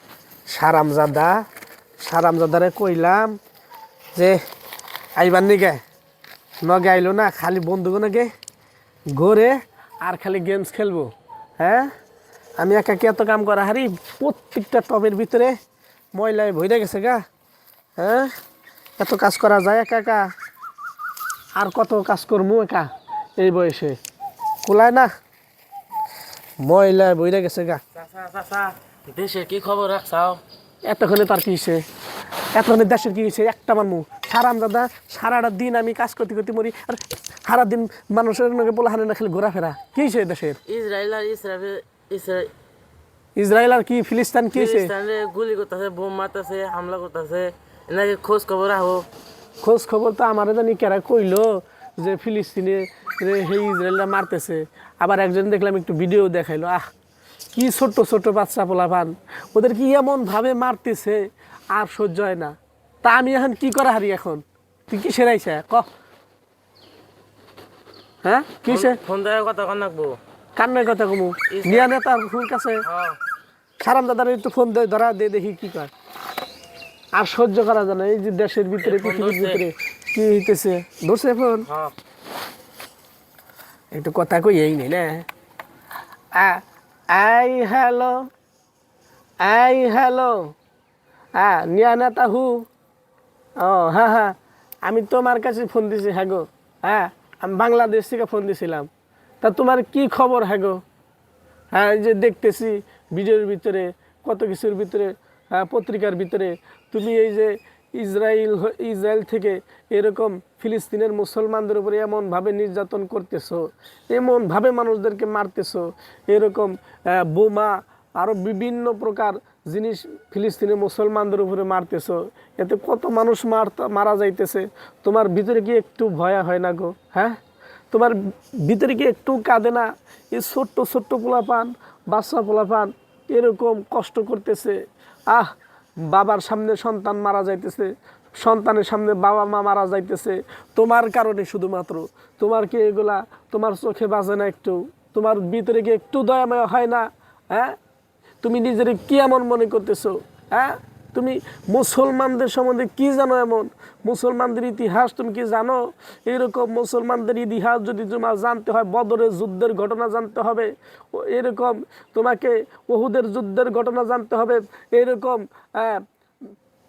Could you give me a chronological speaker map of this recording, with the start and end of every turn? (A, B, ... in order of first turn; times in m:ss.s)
0:00.5-0:01.4 A
0:02.0-0:03.4 A
0:05.2-0:05.8 A
0:06.6-0:08.3 A
0:09.1-0:11.9 A
0:12.6-0:15.6 A
0:16.2-0:17.2 A
0:18.0-0:18.3 A
0:19.0-0:20.3 A
0:21.6-0:24.0 A
0:24.6-0:25.1 A
0:26.6-0:27.8 A
0:28.0-0:30.4 B
0:30.9-0:31.8 A
0:32.6-0:40.6 A
0:40.7-0:42.5 B
0:43.4-0:44.9 A
0:44.5-0:49.0 B
0:49.6-0:56.9 A
0:57.6-1:05.9 A
1:08.2-1:09.0 A
1:08.7-1:10.2 B
1:10.6-1:12.9 A
1:11.5-1:11.9 B
1:12.8-1:13.2 B
1:13.8-1:15.9 A
1:17.2-1:21.7 A
1:18.8-1:19.6 B
1:21.7-1:22.0 B
1:24.0-1:25.3 A
1:26.4-1:28.3 A
1:29.4-1:30.5 A
1:31.4-1:32.6 A
1:33.6-1:38.9 A
1:39.4-1:40.8 A
1:41.7-2:07.4 A
2:07.9-2:15.5 A
2:16.0-2:27.8 A
2:28.4-2:46.0 A